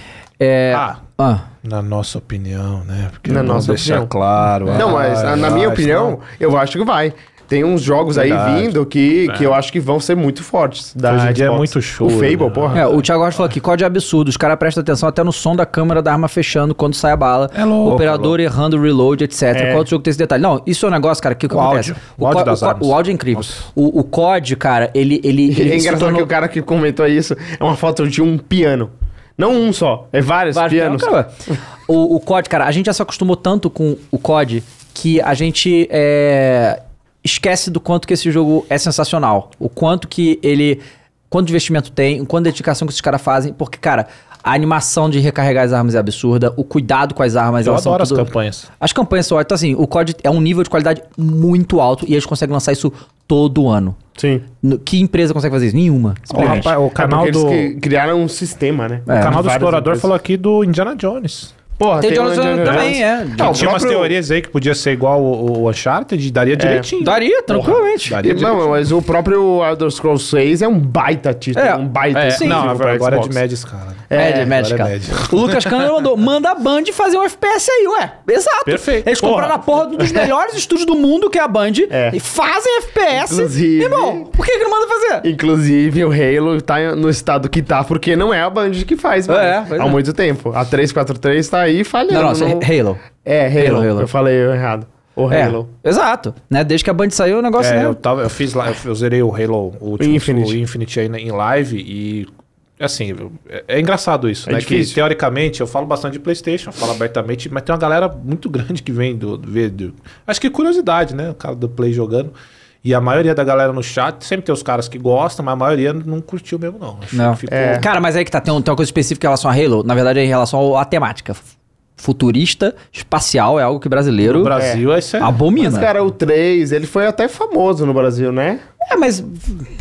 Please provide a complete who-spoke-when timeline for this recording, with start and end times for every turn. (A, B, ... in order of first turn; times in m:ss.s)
0:00.4-0:01.5 A
0:00.7-0:01.0 B
0:01.6-0:06.2 B
0:03.3-0:04.1 C
0:04.7-0:12.9 C
0:08.1-0:08.7 B
0:09.3-0:09.6 B
0:11.0-0:13.0 B
0:12.7-0:26.3 A
0:17.5-0:18.4 B
0:19.5-0:19.9 C
0:21.5-0:23.6 B
0:25.5-0:31.1 C
0:30.5-0:31.3 A
0:31.9-0:48.3 A
0:47.6-0:48.7 B
0:48.8-0:54.0 A
0:54.2-0:54.4 C
0:54.6-0:56.7 A
0:56.3-1:00.1 C
0:56.3-0:57.7 B
0:59.1-0:59.4 A
0:59.1-1:01.5 B
1:01.8-1:04.1 C
1:02.0-1:03.7 A
1:02.6-1:08.8 B
1:06.6-1:06.9 C
1:07.0-1:08.2 A
1:08.2-1:13.4 C
1:11.6-1:12.6 A
1:12.1-1:15.9 B
1:14.1-1:14.6 C
1:14.1-1:25.3 A
1:18.6-1:19.4 B
1:19.2-1:20.3 C
1:21.9-1:22.2 C
1:23.1-1:24.3 C
1:25.2-1:32.7 C
1:29.3-1:30.0 A
1:32.1-1:33.0 A
1:33.2-1:35.7 C
1:33.6-1:34.1 A
1:35.3-1:38.0 A
1:37.6-1:42.3 B
1:40.0-1:40.6 C
1:42.8-1:52.3 B
1:44.4-1:45.0 C
1:52.8-1:57.9 B
1:57.1-2:01.5 A
1:57.5-1:57.9 C
2:02.0-2:04.5 A
2:04.2-2:05.4 B
2:04.6-2:04.8 C
2:05.2-2:05.9 A
2:05.6-2:08.6 C
2:08.8-2:09.6 A